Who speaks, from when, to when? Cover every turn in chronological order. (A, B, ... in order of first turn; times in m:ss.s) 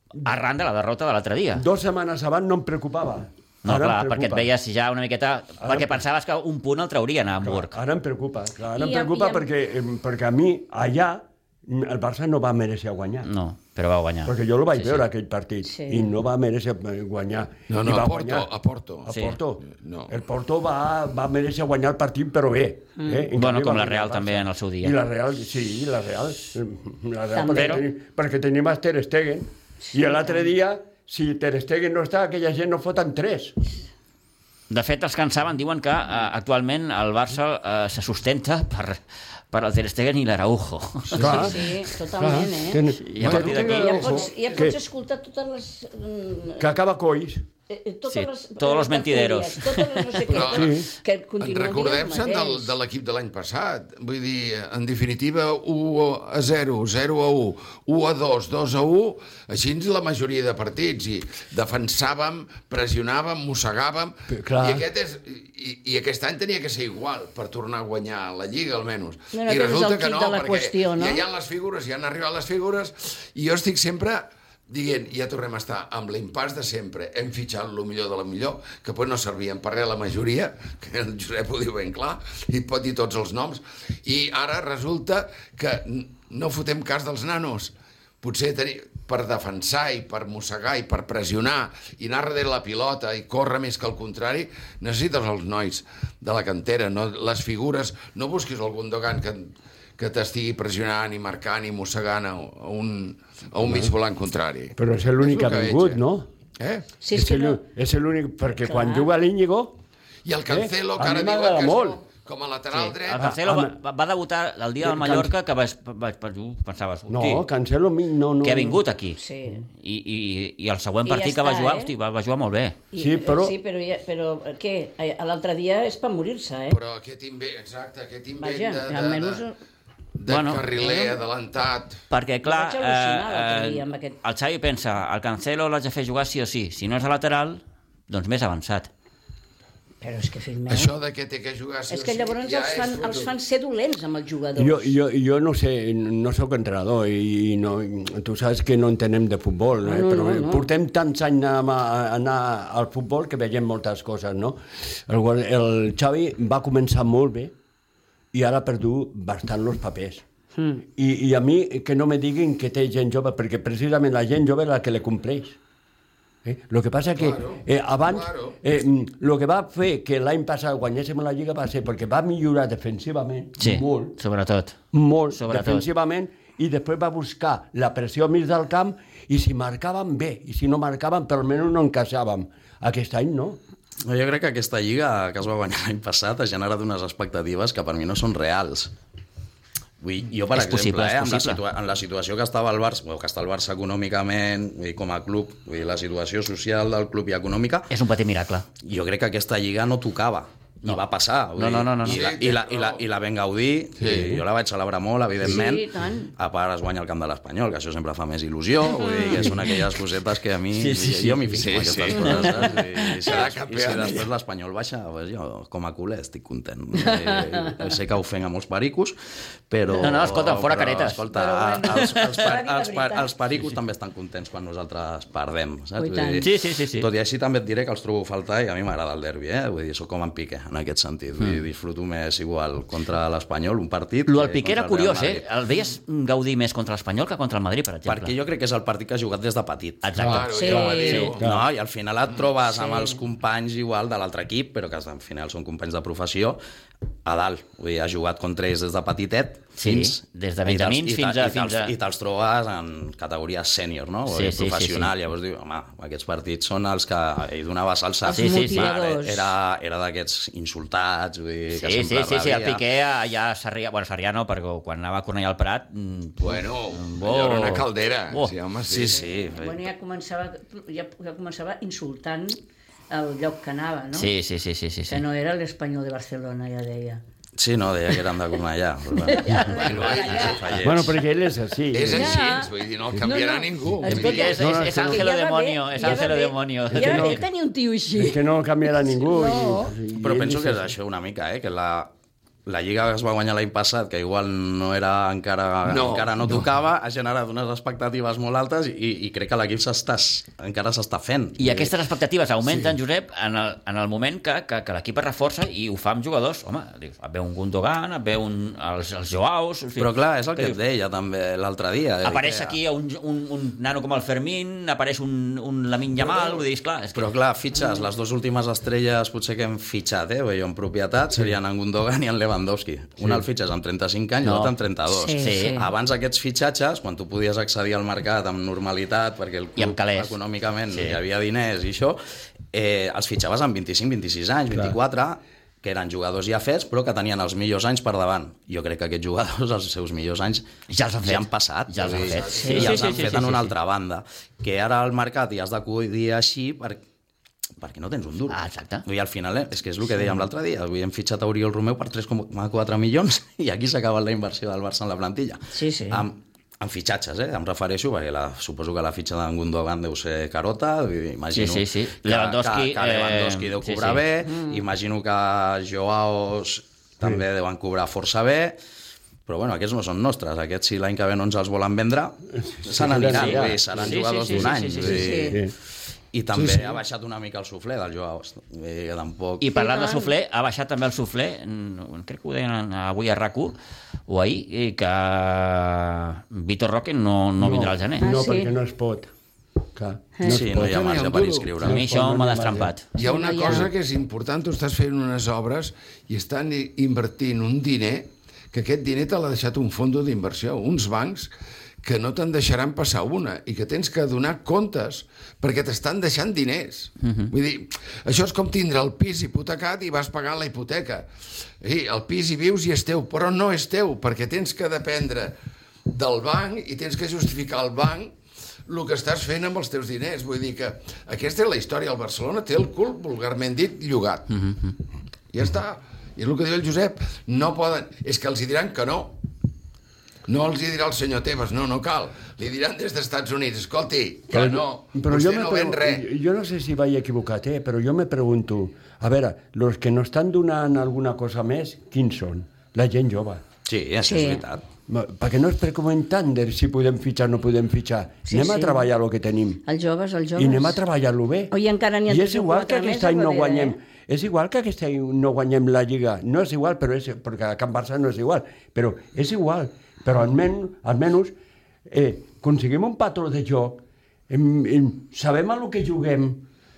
0:00.2-0:01.6 A
0:01.6-0:04.5 B
0:03.6-0:07.8 A
0:05.6-0:06.0 B
0:07.4-0:13.3 B
0:08.8-0:09.5 C
0:13.2-0:15.0 A
0:14.2-0:18.5 B
0:15.6-0:16.1 C
0:17.7-0:19.1 D
0:19.1-0:33.6 B
0:19.1-0:19.4 A
0:19.7-0:20.2 D
0:23.0-0:23.3 C
0:23.4-0:25.0 A
0:27.3-0:27.8 C
0:27.5-0:27.8 A
0:29.8-0:30.3 C
0:34.7-0:39.0 A
0:39.5-0:41.7 A
0:41.2-0:41.6 B
0:41.2-0:46.7 C
0:42.2-0:44.8 B
0:43.0-0:44.2 A
0:46.6-0:47.4 B
0:47.7-0:52.7 C
0:48.1-0:50.2 A
0:50.3-0:50.8 D
0:50.4-0:50.9 B
0:51.4-1:46.0 D
1:04.3-1:04.9 B
1:09.3-1:11.3 C
1:43.6-1:43.9 B
1:44.8-1:46.3 B
1:46.6-1:46.9 D
1:47.0-1:47.6 C
1:47.1-1:49.8 B
1:48.6-1:49.1 C
1:50.2-1:53.3 D
1:50.5-1:52.0 B
1:52.7-1:57.4 A
1:53.2-1:53.8 B
1:54.8-1:55.3 B
1:57.1-1:58.8 B
1:58.4-2:02.8 A
1:59.2-1:59.7 C
2:01.0-2:01.9 C
2:02.9-2:06.8 C
2:03.0-2:03.6 B
2:06.7-2:09.4 D
2:08.4-2:09.6 C
2:10.2-2:12.0 D
2:10.3-2:10.7 A
2:10.8-2:11.2 C
2:12.1-2:18.9 A
2:12.4-2:14.2 C
2:20.0-2:20.9 C
2:20.7-2:23.3 D
2:21.9-2:24.9 C
2:24.6-2:37.5 B
2:29.8-2:30.7 C
2:38.3-2:40.2 B
2:40.6-2:40.8 C
2:40.9-2:45.6 B
2:46.4-2:54.2 B
2:47.2-2:48.6 D
2:53.6-2:54.8 A
2:54.9-3:03.6 B
2:55.3-2:55.9 A
3:04.0-3:08.9 E
3:10.0-3:17.9 E
3:10.5-3:11.6 A
3:17.9-3:18.7 A
3:18.8-3:39.2 E
3:21.6-3:22.3 A
3:22.0-3:23.0 D
3:24.0-3:24.3 D
3:24.1-3:24.4 B
3:25.4-3:26.3 C
3:29.0-3:29.5 C
3:30.7-3:33.4 A
3:31.6-3:32.5 D
3:33.2-3:34.3 D
3:37.0-3:37.8 C
3:39.7-3:55.4 E
3:40.0-3:41.2 A
3:41.3-3:43.3 C
3:41.9-3:42.2 A
3:46.0-3:46.5 C
3:46.4-3:47.1 A
3:54.3-3:58.4 A
3:58.1-4:00.3 E
4:00.0-4:01.3 A
4:00.2-4:00.5 B
4:00.2-4:01.5 D
4:00.5-4:01.4 C
4:01.3-4:06.6 E
4:01.4-4:01.7 B
4:02.7-4:03.2 C
4:07.2-4:22.8 E
4:09.8-4:11.9 A
4:14.3-4:15.1 A
4:18.2-4:19.5 C
4:18.3-4:18.9 A
4:21.7-4:28.5 A
4:26.4-4:29.2 D
4:28.9-4:29.9 E
4:29.1-4:32.6 C
4:33.1-4:34.3 C
4:34.1-4:35.2 A
4:35.1-4:37.2 C
4:37.6-4:41.2 E
4:39.2-4:40.7 C
4:39.7-4:40.8 D
4:40.8-4:42.5 B
4:41.9-4:44.6 D
4:42.1-4:50.0 C
4:44.1-4:45.3 B
4:44.1-4:47.4 A
4:46.9-4:47.4 B
4:48.2-4:50.9 B
4:50.1-4:52.1 E
4:52.7-5:01.9 E
4:55.8-4:56.7 D
5:01.6-5:10.8 A
5:10.0-5:12.8 E
5:12.2-5:17.3 A
5:16.2-5:16.6 E
5:17.1-5:32.2 E
5:24.4-5:24.7 A
5:25.1-5:25.9 C
5:25.4-5:25.8 A
5:29.8-5:30.4 A
5:30.9-5:31.2 A
5:32.7-5:40.7 E
5:34.7-5:35.0 B
5:40.9-5:43.7 A
5:41.2-5:47.0 E
5:42.0-5:43.4 D
5:42.5-5:43.1 C
5:47.8-6:08.8 E
5:48.5-5:49.0 A
5:55.7-5:56.2 C
6:01.5-6:04.2 A
6:04.4-6:04.8 C
6:09.5-6:15.7 E
6:12.6-6:15.7 B
6:13.3-6:15.4 A
6:15.1-6:15.6 C
6:16.3-6:19.7 E
6:16.5-6:17.0 D
6:19.6-6:23.8 A
6:19.8-6:20.3 C
6:24.3-6:28.3 A
6:27.6-6:29.3 B
6:28.2-6:28.7 C
6:30.0-6:33.0 B
6:30.4-6:30.7 C
6:30.4-6:32.0 E
6:31.8-6:33.1 A
6:33.2-6:33.9 C
6:33.2-6:41.5 D
6:42.0-6:51.3 D
6:47.2-6:47.5 A
6:51.8-6:55.6 D
6:56.1-6:58.4 D
6:58.9-7:04.7 D
7:05.5-7:09.4 D
7:10.5-7:16.3 D
7:14.5-7:23.6 B
7:23.9-7:24.8 E
7:24.2-7:24.6 C
7:25.1-7:29.8 B
7:28.5-7:29.1 C
7:29.9-7:31.0 C
7:30.6-7:31.7 B
7:31.7-7:34.0 C
7:32.3-7:41.5 B
7:42.1-7:46.7 B